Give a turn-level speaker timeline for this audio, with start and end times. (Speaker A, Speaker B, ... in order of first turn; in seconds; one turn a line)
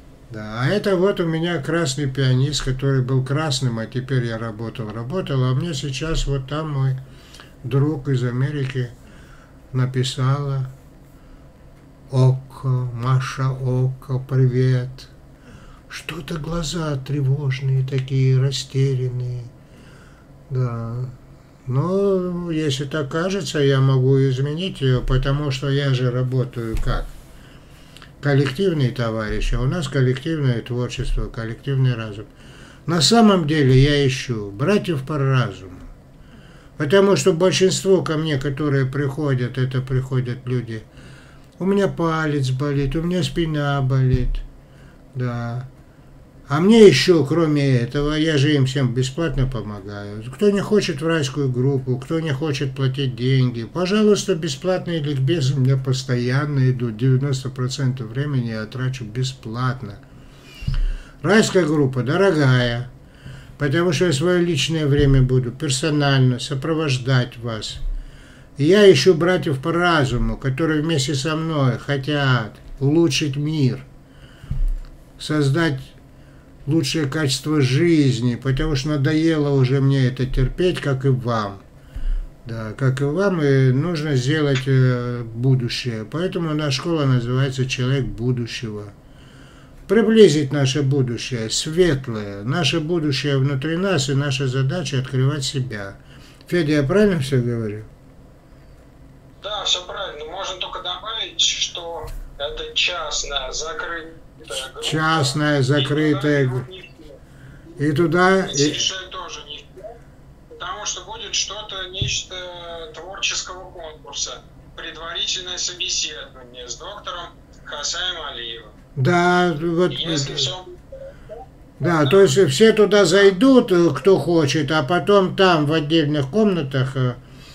Speaker A: 0.3-7.0
Speaker A: 7.6-8.9
Speaker A: 9.7-10.7
Speaker A: 12.1-15.1
Speaker A: 15.9-19.5
Speaker A: 20.5-27.1
Speaker A: 28.2-32.3
Speaker A: 32.9-35.9
Speaker A: 36.8-40.9
Speaker A: 41.6-44.4
Speaker A: 45.1-45.7
Speaker A: 46.5-60.0
Speaker A: 61.2-62.9
Speaker A: 63.6-67.8
Speaker A: 68.6-73.9
Speaker A: 75.2-75.9
Speaker A: 76.7-81.6
Speaker A: 82.5-88.9
Speaker A: 89.9-97.9
Speaker B: 99.4-107.2
Speaker A: 104.6-106.7
Speaker A: 107.8-108.8
Speaker B: 108.4-110.0
Speaker B: 110.5-118.7
Speaker A: 119.0-120.5
Speaker B: 119.9-121.2
Speaker A: 121.8-127.2
Speaker B: 121.8-122.3